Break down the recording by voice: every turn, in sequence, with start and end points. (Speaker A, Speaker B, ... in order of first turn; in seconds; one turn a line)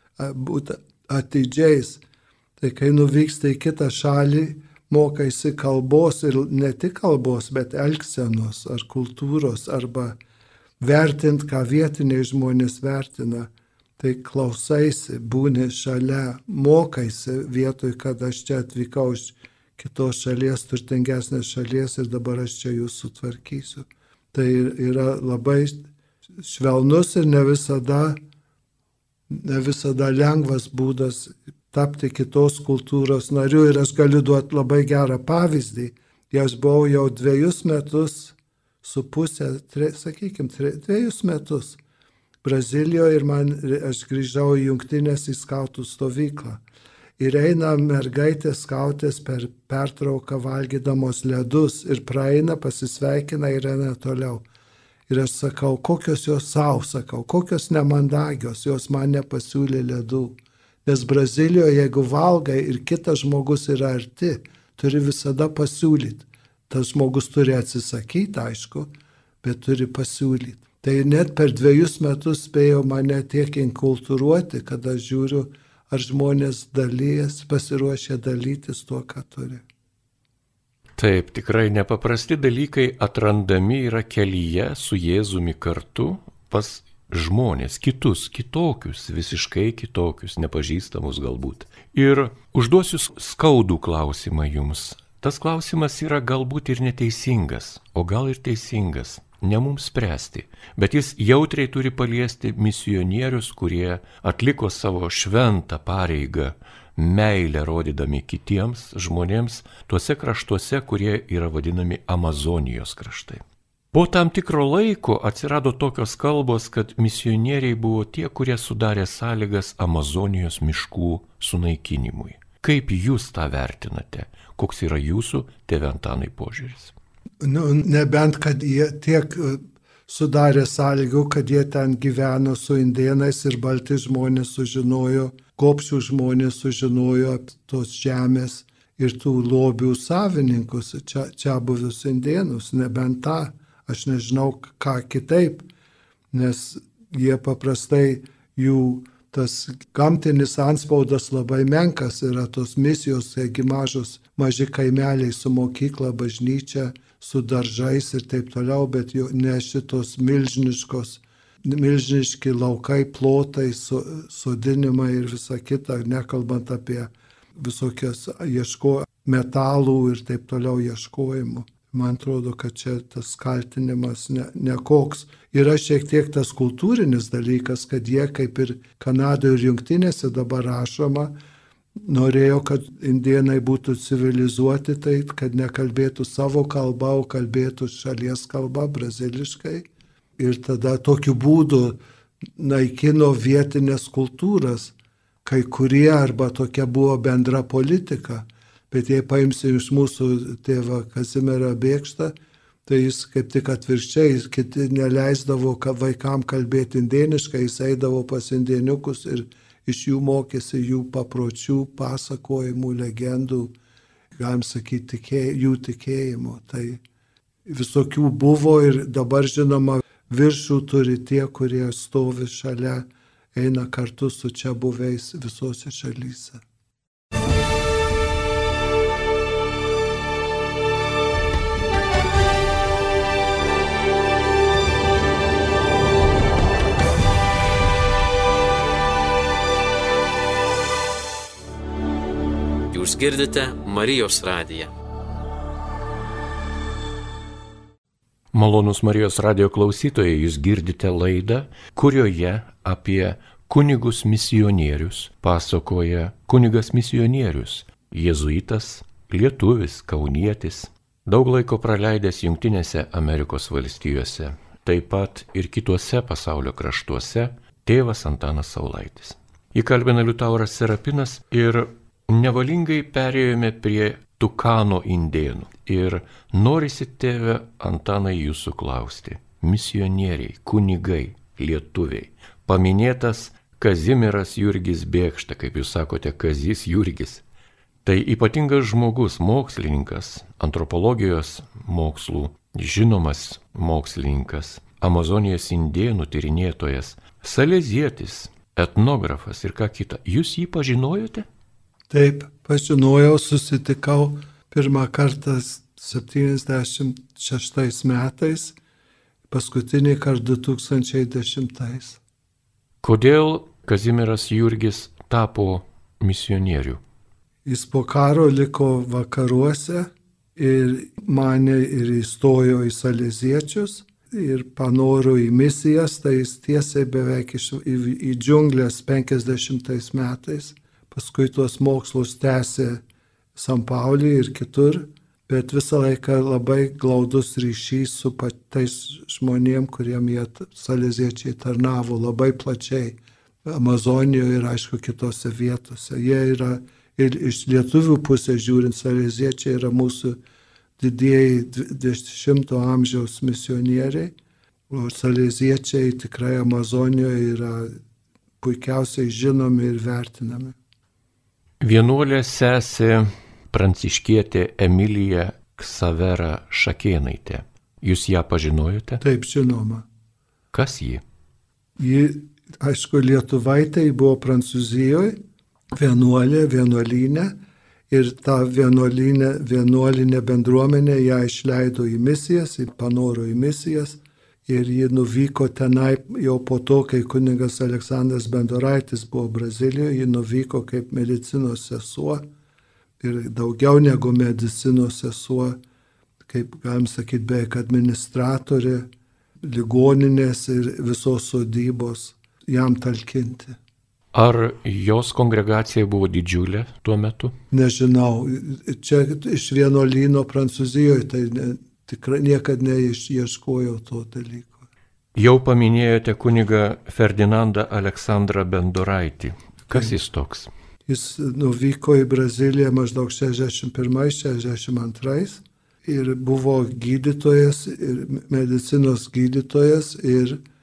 Speaker A: 0.2-2.0
Speaker A: 2.6-10.2
Speaker A: 10.8-28.2
Speaker A: 29.3-41.8
Speaker A: 42.4-46.6
Speaker A: 47.2-54.5
Speaker A: 55.1-68.9
Speaker A: 69.4-79.6
Speaker B: 81.0-126.9
Speaker A: 127.4-145.7
Speaker A: 146.3-181.3
Speaker A: 182.0-189.8
Speaker A: 190.4-192.0
Speaker A: 192.6-202.3
Speaker A: 202.8-213.7
Speaker A: 214.4-217.0
Speaker A: 217.7-226.6
Speaker C: 242.9-244.9
Speaker B: 248.5-287.4
Speaker B: 288.0-301.5
Speaker A: 302.1-308.8
Speaker A: 309.5-312.2
Speaker B: 313.0-317.0
Speaker A: 317.6-333.0
Speaker A: 333.5-350.4
Speaker A: 351.0-354.3
Speaker A: 354.9-358.0
Speaker A: 358.6-360.8
Speaker B: 361.8-369.2
Speaker A: 369.2-370.1
Speaker B: 370.7-371.2
Speaker A: 372.0-375.4
Speaker A: 375.9-377.5
Speaker A: 378.1-392.4
Speaker A: 393.2-395.8
Speaker A: 396.4-399.1
Speaker A: 399.6-403.8
Speaker B: 404.3-407.6
Speaker A: 407.7-414.9
Speaker B: 415.3-420.7
Speaker A: 421.1-430.6